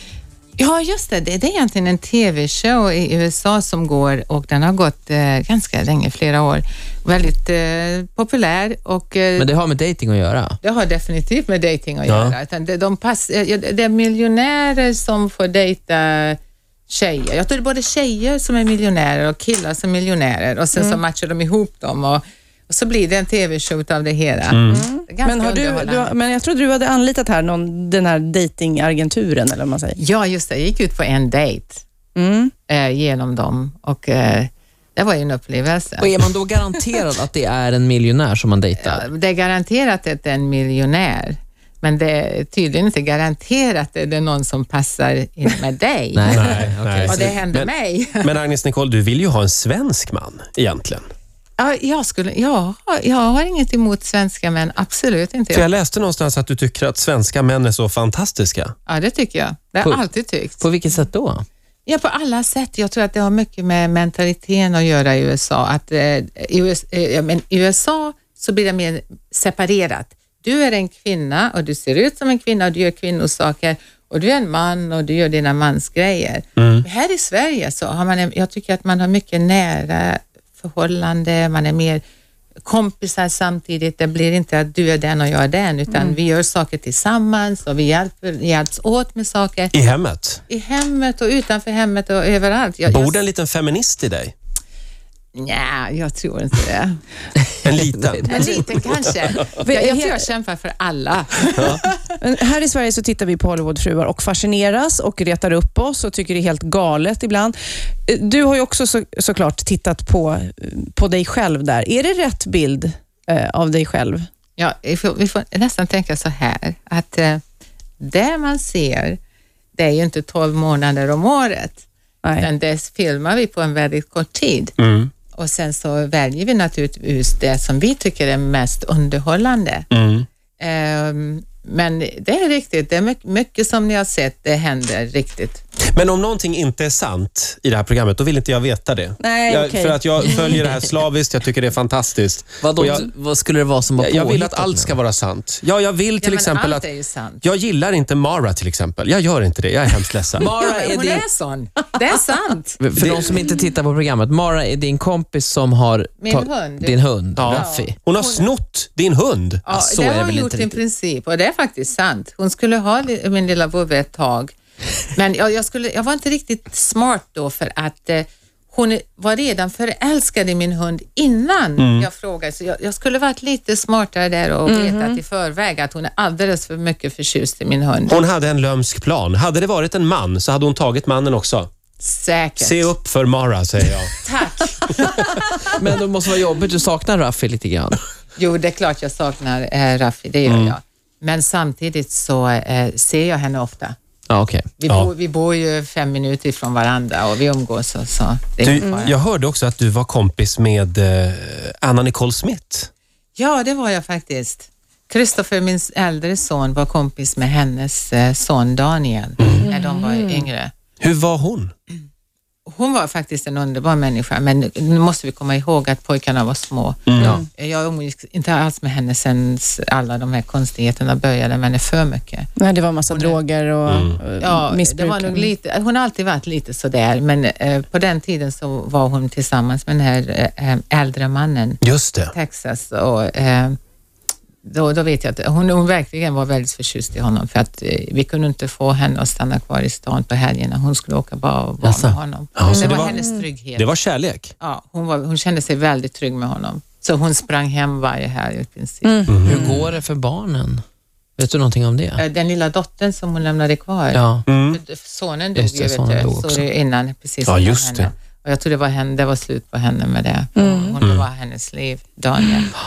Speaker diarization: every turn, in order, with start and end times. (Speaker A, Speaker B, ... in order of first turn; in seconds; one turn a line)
Speaker A: 0.6-9.5
Speaker B: 9.4-10.6
Speaker A: 10.6-26.1
Speaker C: 12.1-12.4
Speaker D: 20.8-21.0
Speaker C: 24.5-24.9
Speaker D: 24.7-30.0
Speaker A: 30.0-31.8
Speaker D: 32.1-32.5
Speaker A: 32.7-36.1
Speaker B: 36.0-39.0
Speaker A: 38.8-46.5
Speaker B: 46.1-47.2
Speaker C: 46.3-51.1
Speaker A: 47.1-48.3
Speaker A: 51.6-55.7
Speaker C: 55.5-58.7
Speaker A: 58.9-60.6
Speaker B: 59.8-61.5
Speaker A: 61.9-82.0
Speaker C: 76.6-76.8
Speaker A: 82.7-89.7
Speaker C: 89.7-90.4
Speaker A: 90.5-93.2
Speaker C: 92.9-94.3
Speaker A: 95.3-97.0
Speaker C: 97.6-98.5
Speaker B: 97.8-98.2
Speaker A: 98.3-102.0
Speaker D: 99.5-100.3
Speaker C: 101.6-101.8
Speaker D: 102.2-114.3
Speaker A: 114.6-117.4
Speaker A: 118.0-119.2
Speaker A: 119.8-121.8
Speaker D: 122.2-122.5
Speaker A: 122.4-124.8
Speaker C: 124.8-125.1
Speaker A: 125.3-129.9
Speaker C: 129.9-130.3
Speaker A: 130.6-135.6
Speaker C: 135.9-143.1
Speaker D: 139.2-140.6
Speaker B: 142.6-145.0
Speaker C: 144.0-146.9
Speaker A: 146.2-147.4
Speaker C: 147.4-150.5
Speaker B: 150.4-151.2
Speaker A: 150.5-152.8
Speaker B: 152.8-158.0
Speaker C: 153.0-153.4
Speaker A: 156.2-158.5
Speaker C: 157.4-159.6
Speaker A: 159.7-164.5
Speaker B: 159.7-160.8
Speaker A: 165.2-178.2
Speaker C: 171.8-172.1
Speaker D: 174.7-175.2
Speaker C: 178.1-181.7
Speaker A: 182.0-182.9
Speaker C: 182.6-184.2
Speaker A: 184.2-185.4
Speaker B: 185.7-188.0
Speaker A: 188.4-194.0
Speaker C: 190.5-190.8
Speaker B: 194.3-194.7
Speaker A: 194.8-199.1
Speaker C: 198.6-202.9
Speaker A: 203.4-210.7
Speaker C: 209.4-209.7
Speaker D: 209.6-210.5
Speaker C: 211.0-211.7
Speaker A: 212.7-222.5
Speaker C: 217.1-217.4
Speaker D: 217.2-217.5
Speaker D: 222.6-225.5
Speaker A: 223.1-223.4
Speaker C: 223.9-224.2
Speaker A: 224.4-231.8
Speaker C: 231.8-232.3
Speaker A: 232.3-233.8
Speaker A: 234.6-243.9
Speaker B: 241.8-242.2
Speaker C: 242.6-243.2
Speaker D: 242.7-243.4
Speaker C: 243.8-244.5
Speaker A: 244.6-249.3
Speaker D: 249.0-249.8
Speaker C: 249.3-249.6
Speaker B: 249.4-250.8
Speaker B: 251.4-252.2
Speaker A: 252.2-262.7
Speaker B: 254.1-254.5
Speaker C: 254.5-254.8
Speaker B: 255.6-256.6
Speaker C: 257.5-258.1
Speaker D: 260.6-261.0